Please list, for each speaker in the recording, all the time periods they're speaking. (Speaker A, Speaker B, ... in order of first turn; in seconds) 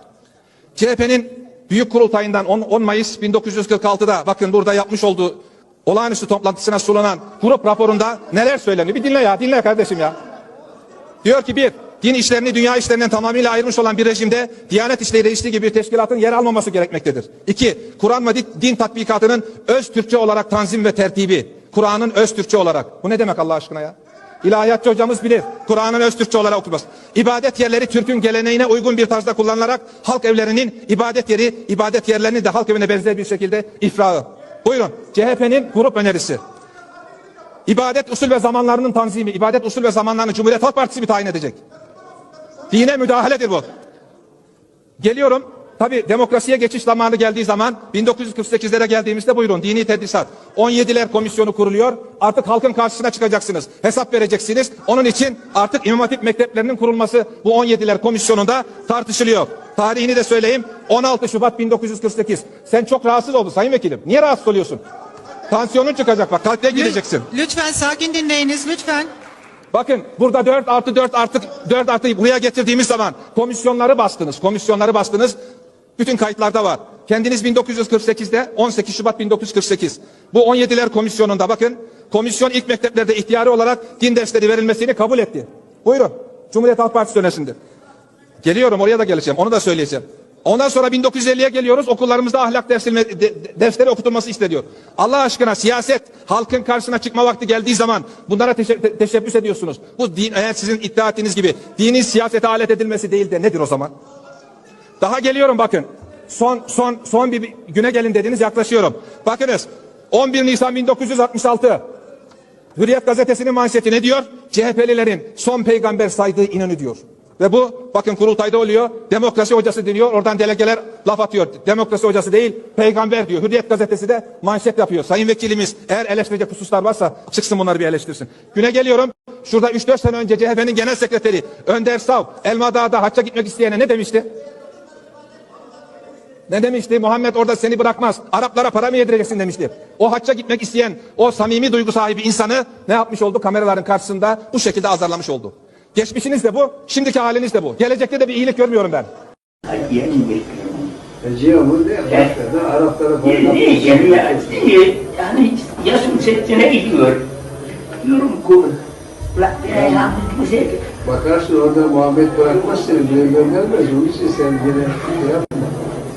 Speaker A: 0.8-10.1, 11.2-36.4, 37.6-41.6, 42.7-43.6, 45.0-64.8, 65.5-67.2, 69.7-75.3, 76.0-87.5, 88.4-103.9, 105.0-111.8, 112.7-134.2, 136.5-149.1
Speaker B: 66.7-69.1
Speaker C: 149.7-150.9, 153.2-157.2, 158.0-158.8, 159.3-160.8
Speaker D: 151.2-154.7, 161.0-165.7